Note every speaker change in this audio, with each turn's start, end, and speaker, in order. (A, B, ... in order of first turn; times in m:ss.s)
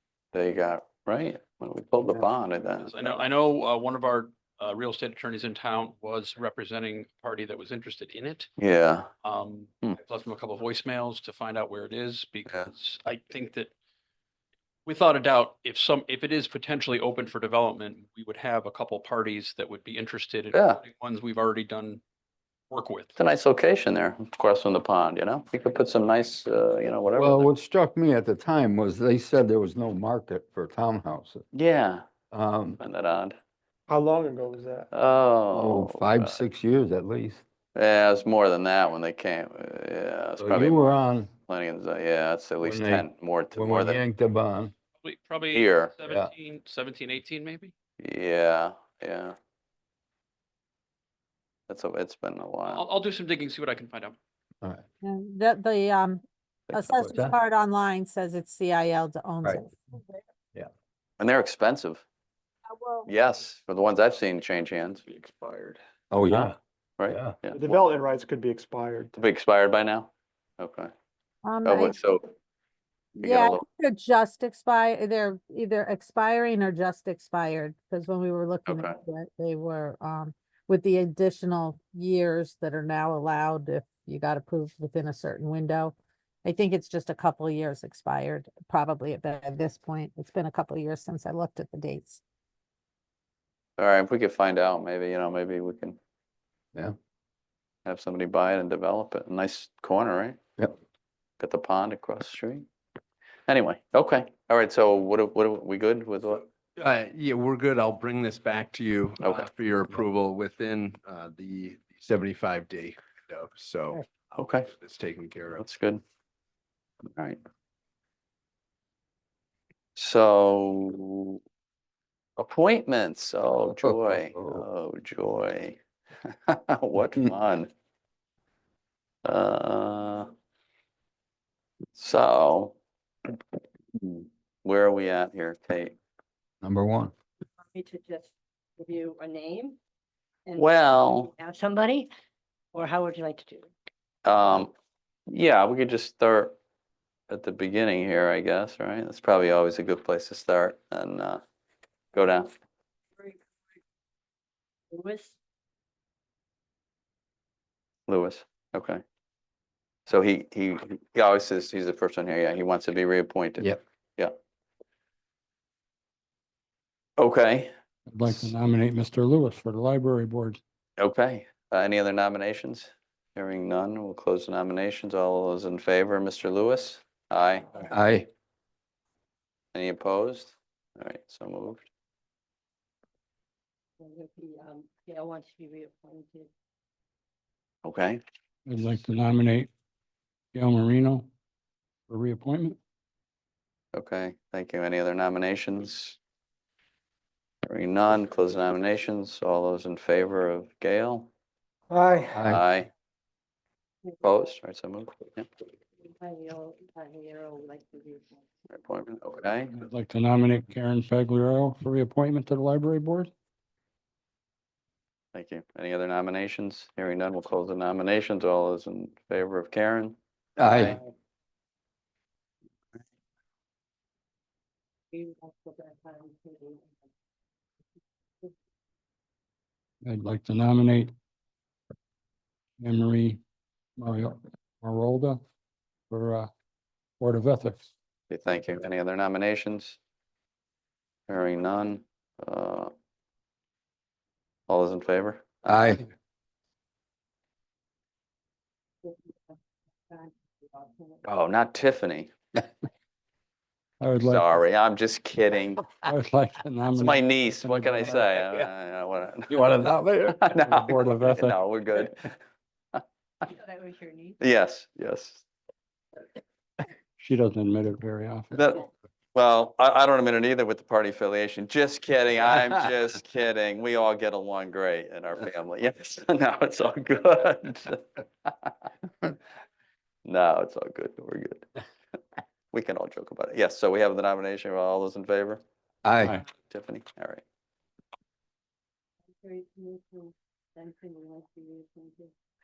0:00.3-0:03.2 A
0:02.8-0:08.5 B
0:08.6-0:09.1 A
0:09.2-0:13.7 B
0:14.8-0:22.0 B
0:20.5-0:20.8 A
0:22.7-0:23.1 B
0:23.2-0:27.5 A
0:27.1-0:31.4 C
0:31.5-0:32.0 A
0:32.3-0:32.8 C
0:32.8-0:33.4 A
0:33.9-0:34.9 D
0:34.9-0:36.4 A
0:35.5-0:37.4 C
0:37.7-0:40.9 A
0:40.4-0:41.3 C
0:41.5-0:44.0 A
0:42.6-0:44.7 C
0:45.0-0:47.7 B
0:45.5-0:45.9 A
0:46.0-0:46.3 C
0:48.0-0:49.3 A
0:51.7-0:52.8 A
0:52.7-0:54.2 B
0:55.0-0:56.2 E
0:56.7-1:00.2 E
0:56.7-0:57.4 C
1:01.2-1:02.0 A
1:02.7-1:03.1 E
1:03.1-1:05.8 A
1:06.1-1:06.6 C
1:07.0-1:07.8 A
1:07.1-1:07.4 C
1:07.5-1:09.2 D
1:09.1-1:10.9 A
1:11.4-1:12.0 E
1:11.6-1:12.2 A
1:13.2-1:13.6 A
1:13.2-1:32.2 E
1:18.7-1:18.9 A
1:33.8-1:36.0 A
1:37.8-1:40.4 A
1:41.4-1:42.6 A
1:43.5-1:46.4 A
1:46.8-1:54.1 F
1:54.3-1:54.7 A
1:54.6-1:55.7 F
1:55.6-1:56.0 A
2:00.0-2:01.4 A
2:02.4-2:05.8 A
2:03.8-2:04.6 C
2:06.5-2:07.7 A
2:09.2-2:10.3 A
2:11.9-2:12.8 A
2:13.9-2:16.0 A
2:16.6-2:17.1 C
2:17.6-2:19.8 G
2:20.4-2:22.1 G
2:20.6-2:21.3 A
2:22.7-2:23.7 G
2:24.2-2:24.7 A
2:25.3-2:26.5 A
2:27.3-2:31.4 A
2:32.1-2:32.5 A
2:34.9-2:35.4 G
2:38.1-2:39.0 A
2:40.1-2:44.3 A
2:47.2-2:47.7 A
2:48.1-2:50.6 H
2:51.0-2:57.9 A
2:57.9-2:58.3 C
2:59.7-3:01.9 A
3:04.0-3:06.5 G
3:07.8-3:08.2 A
3:08.6-3:09.7 H
3:10.5-3:11.3 H
3:12.1-3:12.8 H
3:13.9-3:16.2 A
3:17.6-3:21.3 A
3:21.9-3:22.4 D
3:22.3-3:22.6 C
3:22.4-3:22.9 A
3:24.0-3:24.4 G
3:24.2-3:25.5 A
3:26.0-3:28.4 G
3:28.7-3:29.7 A
3:29.7-3:33.3 H
3:35.3-3:41.0 A
3:40.6-3:41.0 C
3:45.1-3:47.1 G
3:50.0-3:51.1 H
3:52.8-3:53.4 H
3:54.0-3:55.4 H
3:56.1-3:56.5 H
3:57.2-3:57.8 H
3:58.3-4:00.0 A
4:01.3-4:02.9 A
4:04.7-4:05.8 A
4:05.6-4:06.0 C
4:09.0-4:09.6 G
4:10.1-4:11.2 G
4:11.2-4:12.3 A
4:14.0-4:14.5 H
4:14.2-4:15.9 A
4:16.0-4:18.3 H
4:17.0-4:22.3 A
4:19.6-4:20.4 C
4:20.5-4:21.6 H
4:23.4-4:24.4 G
4:24.4-4:25.4 A
4:27.2-4:28.5 H
4:28.5-4:38.7 A
4:40.2-4:41.7 A
4:42.7-4:45.6 A
4:46.0-4:46.4 C
4:46.7-4:47.4 A
4:49.4-4:52.3 G